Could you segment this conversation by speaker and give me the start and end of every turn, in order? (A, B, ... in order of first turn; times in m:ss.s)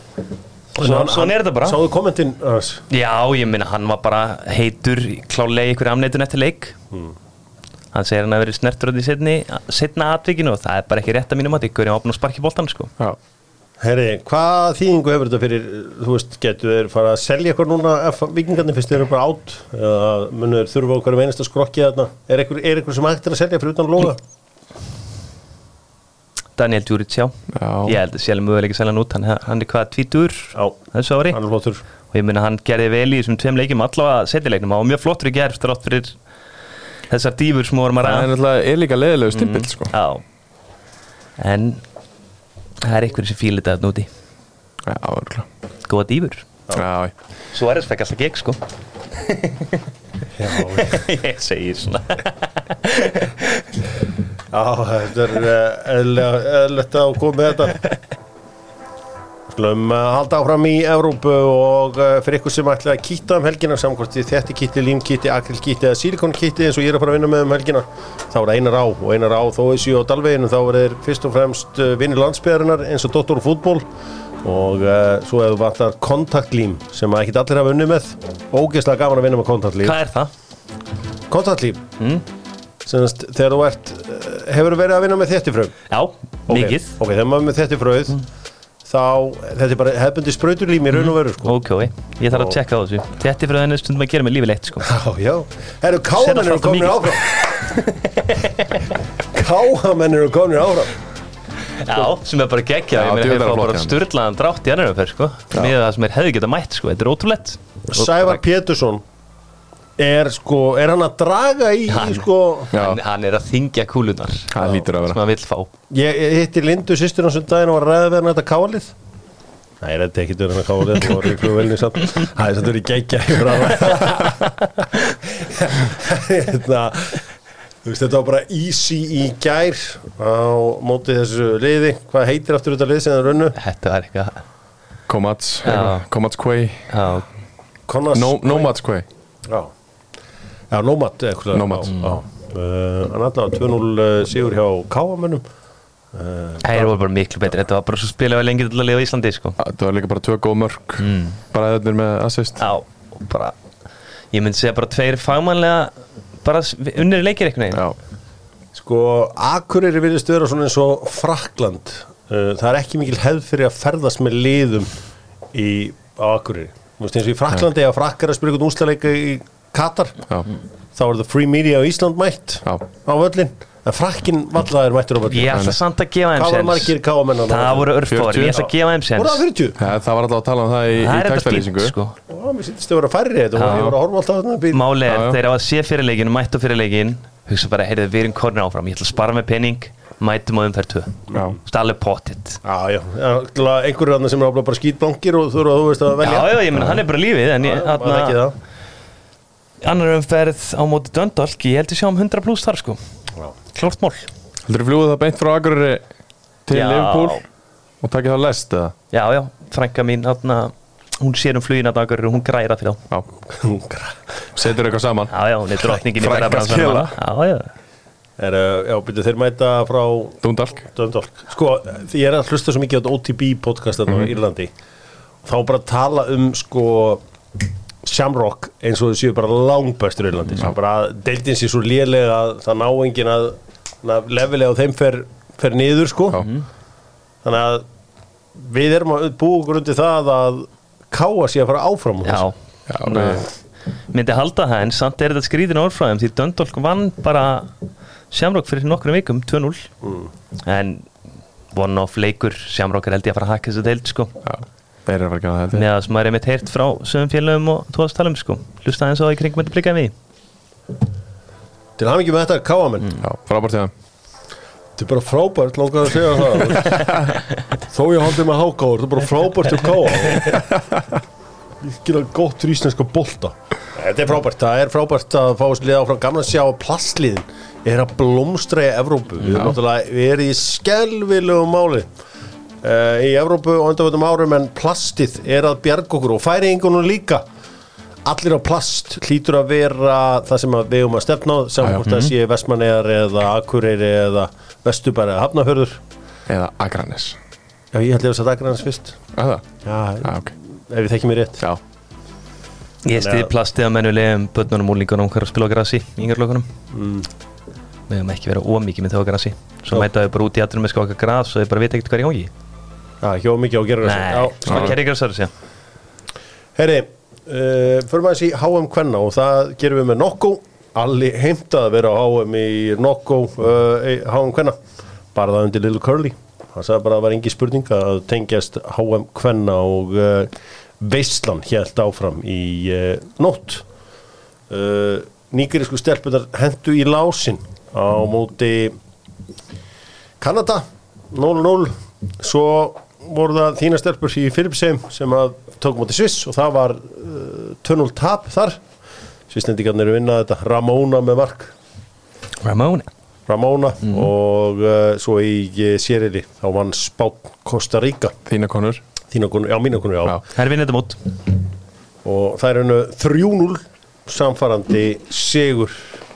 0:00.8-0:01.8 A
0:00.8-0:02.8 B
0:02.9-0:06.8 A
0:07.9-0:12.9 A
0:13.8-0:24.2 B
0:26.6-0:31.4 A
0:27.5-0:28.0 C
0:31.3-0:31.8 B
0:32.1-0:36.2 A
0:37.1-0:38.3 A
0:38.0-0:39.9 C
0:39.3-0:40.2 A
0:41.4-0:41.8 A
0:42.8-0:44.1 A
0:44.8-0:45.5 C
0:45.9-0:46.4 A
0:46.8-0:47.1 C
0:47.5-0:48.6 A
0:49.2-0:49.8 A
0:50.4-0:51.0 B
0:50.5-0:53.6 A
0:54.5-0:57.9 B
0:59.5-1:13.9 B
1:14.4-1:20.0 B
1:19.8-1:20.3 A
1:21.3-1:21.8 B
1:22.0-1:22.2 A
1:22.8-1:25.8 B
1:25.9-1:26.9 A
1:26.5-1:28.2 B
1:28.8-1:31.5 B
1:30.9-1:34.9 A
1:32.3-1:32.6 B
1:34.8-1:37.4 B
1:36.2-1:38.9 A
1:39.3-1:40.9 B
1:41.8-1:48.4 A
1:42.9-1:44.0 C
1:47.9-1:49.0 B
1:50.0-1:52.7 B
1:51.9-1:55.7 A
1:52.7-1:53.0 C
1:54.5-1:55.2 C
1:55.9-1:58.9 B
1:59.8-2:07.3 B
2:07.8-2:13.6 B
2:13.6-2:14.4 A
2:15.1-2:16.9 C
2:15.6-2:16.0 A
2:16.9-2:17.3 A
2:17.9-2:18.7 B
2:18.1-2:19.0 C
2:20.7-2:25.4 B
2:21.5-2:22.0 C
2:21.9-2:22.2 A
2:26.1-2:26.9 B
2:26.6-2:29.6 A
2:29.6-2:32.6 C
2:31.0-2:31.4 A
2:32.6-2:33.6 A
2:34.3-2:37.8 A
2:38.8-2:44.9 B
2:45.5-2:50.3 B
2:51.0-2:55.7 B
2:55.3-2:56.9 A
2:56.4-2:57.9 B
2:57.5-2:59.4 A
2:58.1-2:58.6 C
2:58.5-2:59.8 B
2:59.8-3:02.0 C
3:01.0-3:02.2 A
3:02.3-3:04.8 B
3:03.6-3:03.9 A
3:03.7-3:04.0 C
3:04.7-3:12.6 A
3:05.1-3:05.4 C
3:12.6-3:17.0 B
3:16.2-3:18.4 A
3:17.6-3:18.6 B
3:19.8-3:23.0 A
3:23.7-3:24.3 A
3:24.7-3:26.0 C
3:26.6-3:27.4 C
3:26.7-3:27.4 A
3:28.0-3:28.9 C
3:29.1-3:33.0 A
3:33.5-3:34.2 B
3:34.6-3:37.2 C
3:35.3-3:37.7 A
3:38.4-3:44.7 B
3:40.4-3:40.8 C
3:45.4-3:47.2 B
3:48.0-3:56.4 B
3:56.4-3:56.6 A
3:57.4-3:57.8 B
3:58.6-4:02.5 B
4:02.3-4:03.5 A
4:02.9-4:03.4 C
4:04.1-4:07.7 A
4:08.3-4:09.9 A
4:10.0-4:10.3 B
4:10.6-4:11.1 A
4:11.7-4:14.4 A
4:14.4-4:15.9 C
4:15.7-4:20.1 A
4:22.0-4:23.1 B
4:23.2-4:23.9 C
4:25.0-4:30.8 B
4:31.8-4:42.1 B
4:42.8-4:47.4 B
4:48.2-4:56.0 B
4:51.8-4:52.2 C
4:56.5-4:57.4 C
4:57.9-4:59.2 B
4:59.4-4:59.6 C
4:59.8-5:01.6 B
5:00.2-5:00.5 C
5:03.0-5:06.7 A
5:03.2-5:03.5 B
5:06.9-5:07.3 B
5:08.1-5:12.5 A
5:13.2-5:15.0 B
5:14.0-5:15.5 A
5:14.7-5:15.0 C
5:16.8-5:24.8 B
5:25.3-5:33.8 B
5:34.7-5:39.0 B
5:40.4-5:48.8 B
5:49.5-5:51.7 B
5:52.6-5:53.1 A
5:53.5-5:58.4 B
5:58.5-5:59.0 C
5:59.3-6:00.4 B
6:00.5-6:01.2 A
6:02.2-6:06.1 B